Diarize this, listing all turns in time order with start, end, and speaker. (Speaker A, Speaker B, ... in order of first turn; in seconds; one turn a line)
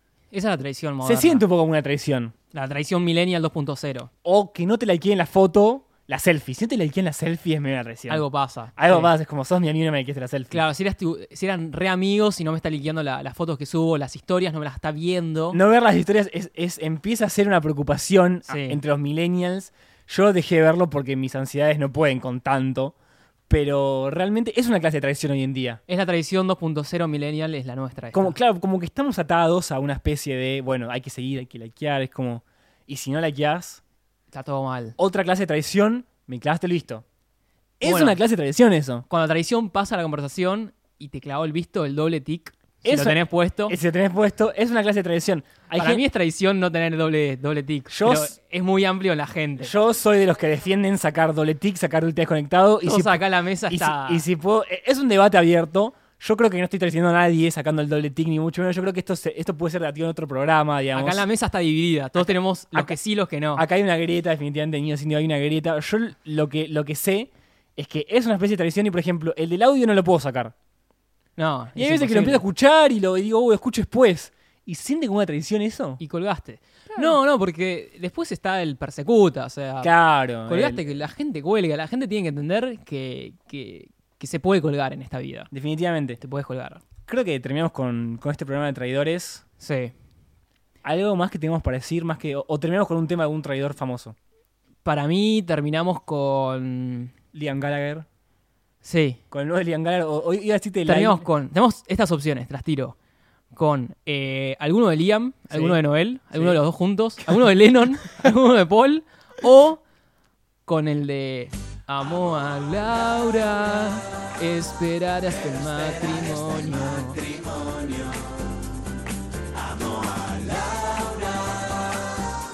Speaker A: 0.3-1.4
Speaker B: 1.0-2.3
Speaker A: 2.5-4.1
Speaker B: 4.2-10.6
Speaker A: 8.1-9.1
Speaker A: 10.5-15.6
Speaker B: 15.5-22.9
Speaker A: 18.5-18.8
Speaker B: 23.5-25.8
Speaker A: 25.9-28.4
Speaker B: 28.1-33.8
Speaker A: 34.3-35.0
Speaker B: 35.0-37.0
Speaker B: 37.8-39.0
Speaker A: 37.8-38.2
Speaker A: 39.1-43.8
Speaker B: 42.8-46.0
Speaker A: 45.7-49.7
Speaker B: 47.9-48.4
Speaker B: 49.6-61.2
Speaker A: 52.8-54.2
Speaker A: 60.9-63.6
Speaker B: 62.2-63.0
Speaker B: 63.5-70.5
Speaker A: 71.4-72.4
Speaker B: 71.8-76.0
Speaker A: 76.0-79.9
Speaker B: 76.9-77.2
Speaker B: 79.8-80.8
Speaker A: 80.4-85.5
Speaker B: 85.5-86.2
Speaker A: 86.2-86.8
Speaker B: 87.1-89.4
Speaker A: 89.6-89.9
Speaker B: 90.8-94.2
Speaker A: 94.8-97.1
Speaker B: 97.3-98.1
Speaker A: 98.8-99.2
Speaker B: 99.3-101.2
Speaker A: 100.9-103.0
Speaker A: 103.5-109.8
Speaker B: 105.5-105.8
Speaker B: 106.3-106.6
Speaker B: 107.2-107.5
Speaker A: 110.7-117.3